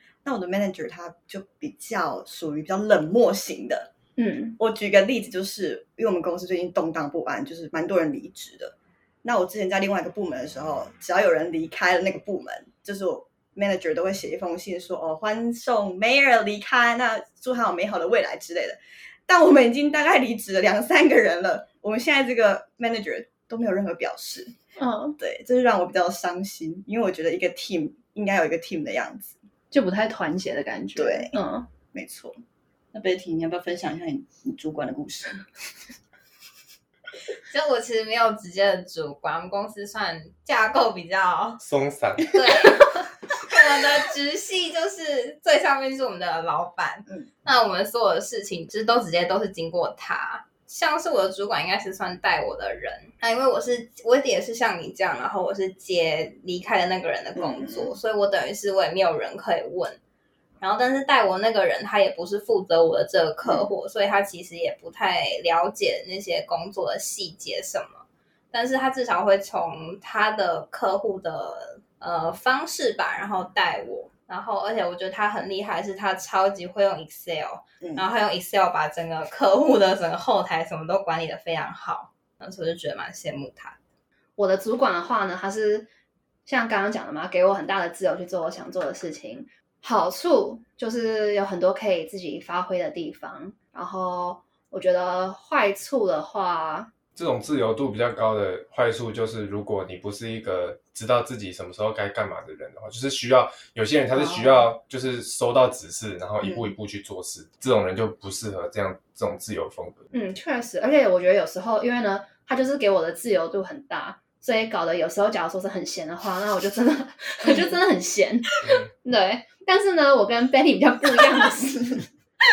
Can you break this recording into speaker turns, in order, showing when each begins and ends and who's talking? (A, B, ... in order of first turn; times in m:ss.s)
0:00.2-0:03.9 A
0:04.2-0:04.6 B
0:04.6-0:24.5 A
0:24.8-0:25.2 B
0:25.2-0:29.4 A
0:29.7-0:31.7 B
0:31.0-0:31.4 A
0:31.9-0:32.4 A
0:32.9-0:35.4 A
0:37.5-0:41.6 C
0:41.6-0:42.3 D
0:42.2-1:00.0 C
0:57.4-0:57.9 A
1:00.6-1:23.8 C
1:24.4-1:25.9 B
1:26.4-1:36.9 B
1:37.2-1:50.1 D
1:44.1-1:44.7 B
1:46.4-1:46.7 A
1:50.1-2:02.1 B